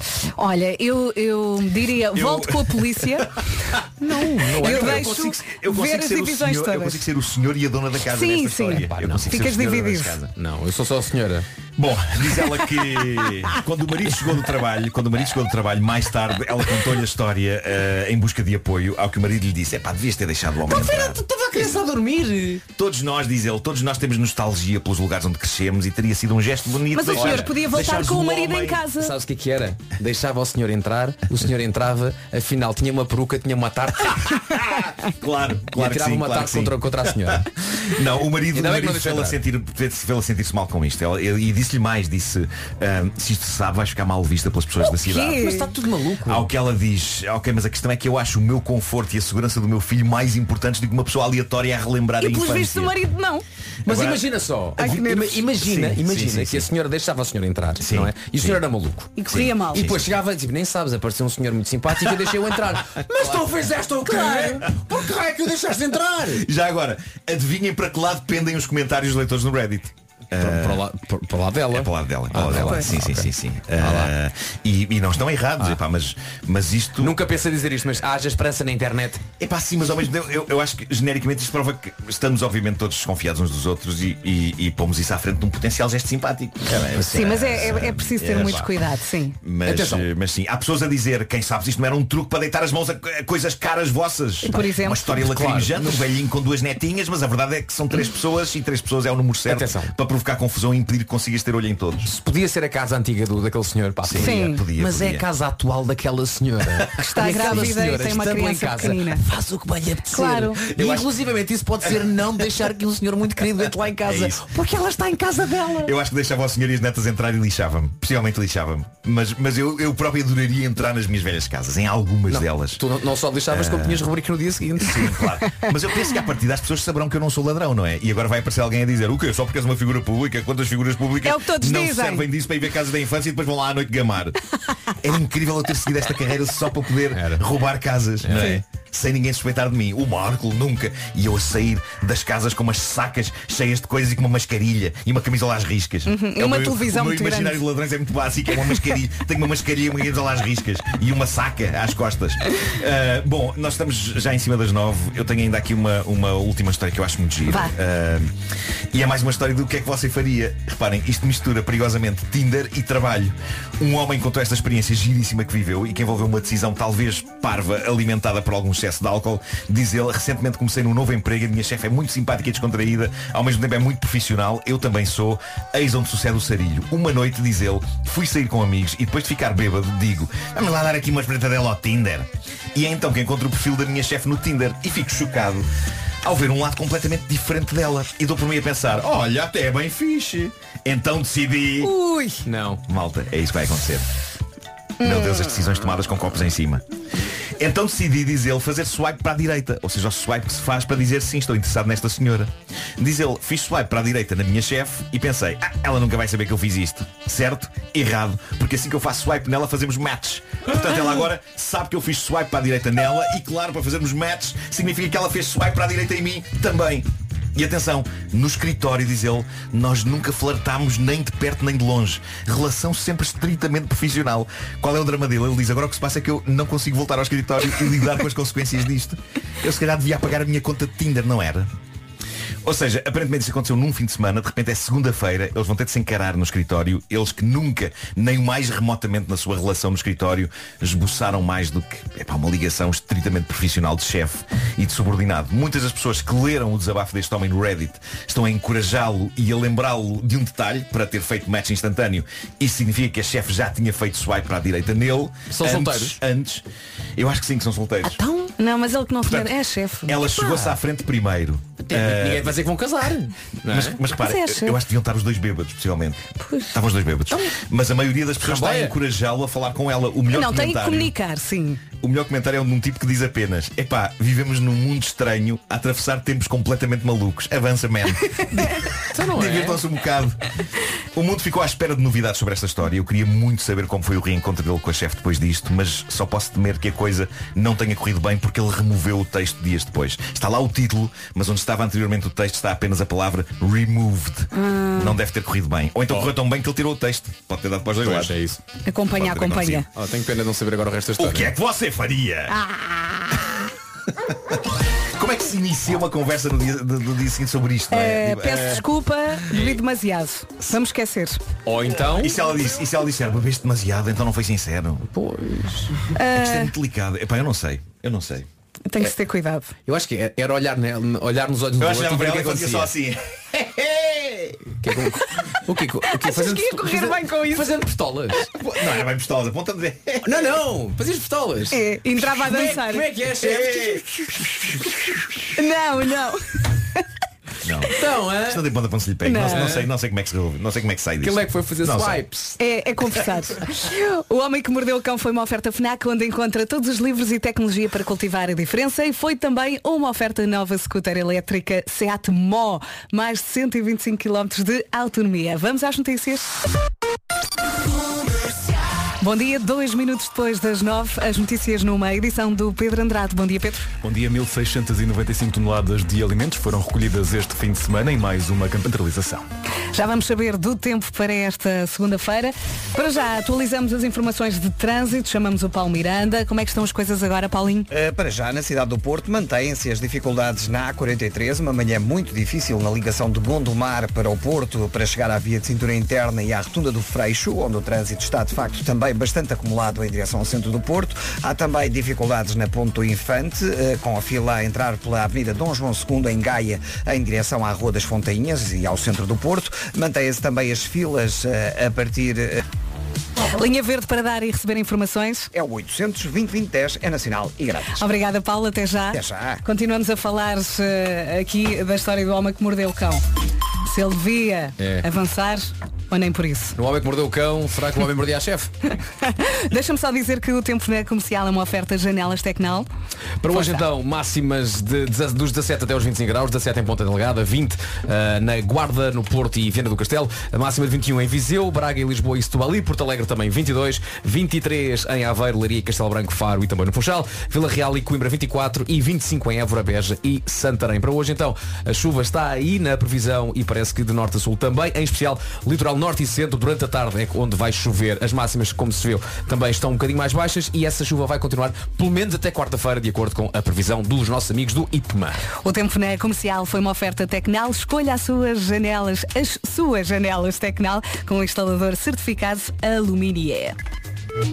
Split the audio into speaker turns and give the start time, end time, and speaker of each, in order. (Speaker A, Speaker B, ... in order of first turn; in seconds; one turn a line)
Speaker A: 0.3-3.3
Speaker B: 2.1-10.3
Speaker A: 4.0-7.0
Speaker C: 4.1-5.2
Speaker A: 8.1-10.2
Speaker C: 8.7-9.4
Speaker C: 10.3-11.5
Speaker B: 11.8-21.2
Speaker C: 20.6-22.6
Speaker B: 22.8-28.9
Speaker A: 26.9-29.1
Speaker C: 27.1-27.5
Speaker C: 29.0-34.4
Speaker B: 34.3-45.5
Speaker C: 35.7-37.5
Speaker C: 38.5-39.4
Speaker A: 44.8-45.7
Speaker C: 45.4-46.5
Speaker B: 46.2-53.0
Speaker A: 52.2-53.4
Speaker B: 53.9-54.2
Speaker C: 53.9-59.1
Speaker A: 54.8-55.5
Speaker B: 55.6-56.6
Speaker B: 57.8-58.6
Speaker A: 59.1-59.9
Speaker B: 59.3-60.1
Speaker C: 59.7-66.5
Speaker B: 66.3-70.8
Speaker C: 70.4-74.1
Speaker B: 71.7-77.2
Speaker C: 77.0-79.2
Speaker B: 79.4-88.7
Speaker C: 86.7-87.5
Speaker A: 87.1-89.4
Speaker B: 89.4-102.1
Speaker C: 89.6-90.1
Speaker A: 94.4-95.0
Speaker C: 95.0-96.1
Speaker C: 99.5-99.9
Speaker C: 102.0-115.9
Speaker B: 104.0-105.2
Speaker A: 104.2-104.6
Speaker B: 106.8-107.9
Speaker A: 107.0-109.2
Speaker A: 110.1-110.6
Speaker B: 110.6-111.1
Speaker B: 114.0-114.4
Speaker B: 115.8-122.8
Speaker C: 122.3-125.2
Speaker B: 123.5-124.0
Speaker B: 124.8-158.3
Speaker A: 131.2-132.3
Speaker C: 137.1-137.4
Speaker C: 138.2-138.5
Speaker A: 138.3-138.6
Speaker A: 146.1-147.6
Speaker B: 158.9-185.7
Speaker B: 186.2-191.9
Speaker A: 191.8-192.4
Speaker C: 192.4-192.8
Speaker B: 192.8-194.1
Speaker B: 195.0-196.8
Speaker B: 197.6-231.7
Speaker B: 232.6-256.6
Speaker C: 255.5-256.2
Speaker B: 257.2-258.2
Speaker C: 258.1-258.5
Speaker A: 258.6-260.6
Speaker B: 260.1-262.6
Speaker C: 261.9-264.0
Speaker B: 263.7-271.1
Speaker A: 264.2-264.8
Speaker A: 266.4-266.8
Speaker C: 268.4-268.9
Speaker A: 270.3-271.8
Speaker B: 272.0-280.5
Speaker C: 279.1-279.8
Speaker B: 281.1-298.3
Speaker A: 294.5-295.2
Speaker C: 298.0-298.6
Speaker A: 298.8-299.9
Speaker B: 299.1-299.9
Speaker C: 299.9-301.5
Speaker B: 301.2-302.6
Speaker B: 304.3-304.6
Speaker B: 305.1-308.8
Speaker A: 307.9-311.4
Speaker C: 309.5-309.8
Speaker C: 311.6-312.4
Speaker B: 312.2-315.1
Speaker C: 315.1-315.9
Speaker A: 316.1-316.7
Speaker B: 316.2-318.5
Speaker A: 318.9-319.7
Speaker C: 319.9-322.9
Speaker B: 321.8-324.7
Speaker C: 324.8-328.5
Speaker A: 326.1-327.7
Speaker B: 328.5-330.5
Speaker C: 330.2-334.0
Speaker A: 331.7-333.1
Speaker B: 333.4-334.7
Speaker A: 335.5-337.0
Speaker B: 337.6-342.2
Speaker C: 337.9-338.6
Speaker A: 339.2-339.7
Speaker C: 339.4-339.9
Speaker C: 341.2-342.6
Speaker A: 342.6-356.6
Speaker A: 359.2-363.9
Speaker D: 364.0-369.4
Speaker A: 369.9-377.9
Speaker E: 377.9-402.6
Speaker A: 403.4-405.5
Speaker E: 405.5-408.0
Speaker A: 408.0-413.2
Speaker E: 409.1-409.6
Speaker A: 413.8-416.8
Speaker C: 414.8-415.0
Speaker C: 416.8-418.7
Speaker A: 419.2-422.9
Speaker C: 423.4-455.4
Speaker A: 455.6-463.8